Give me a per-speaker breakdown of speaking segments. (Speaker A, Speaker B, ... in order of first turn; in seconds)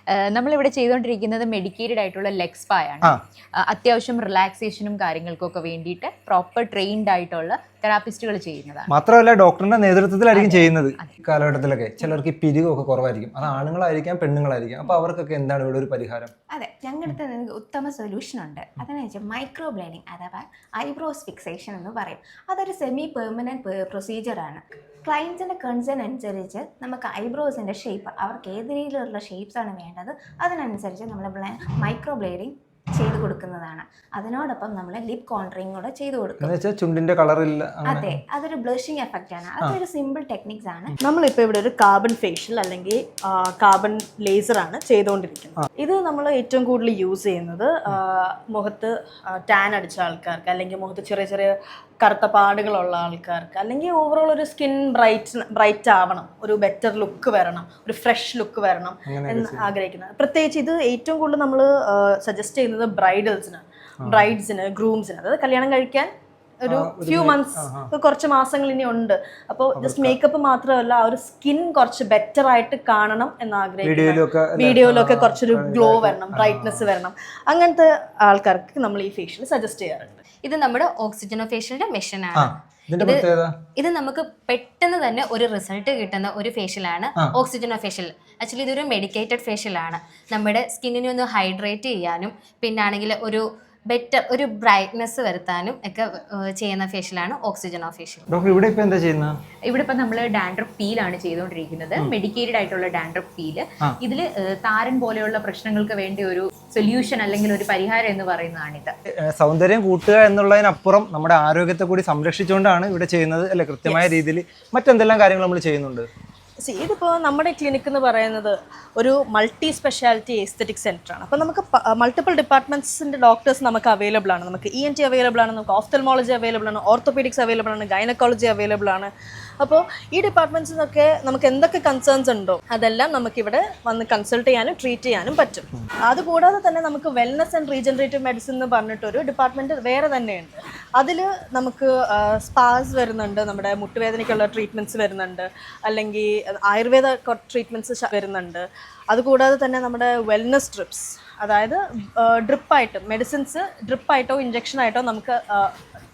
Speaker A: 0.1-8.9, 10.3-11.1, 99.7-108.9
Speaker B: 8.9-16.3, 36.4-38.1, 59.0-59.7, 66.7-67.9, 69.7-70.2, 73.8-76.9, 82.3-83.5, 98.3-99.3, 109.3-116.1
Speaker C: 16.5-36.5, 37.8-40.9
Speaker D: 41.0-66.1, 66.6-80.2, 113.8-114.1, 116.6-155.7
Speaker E: 80.4-98.3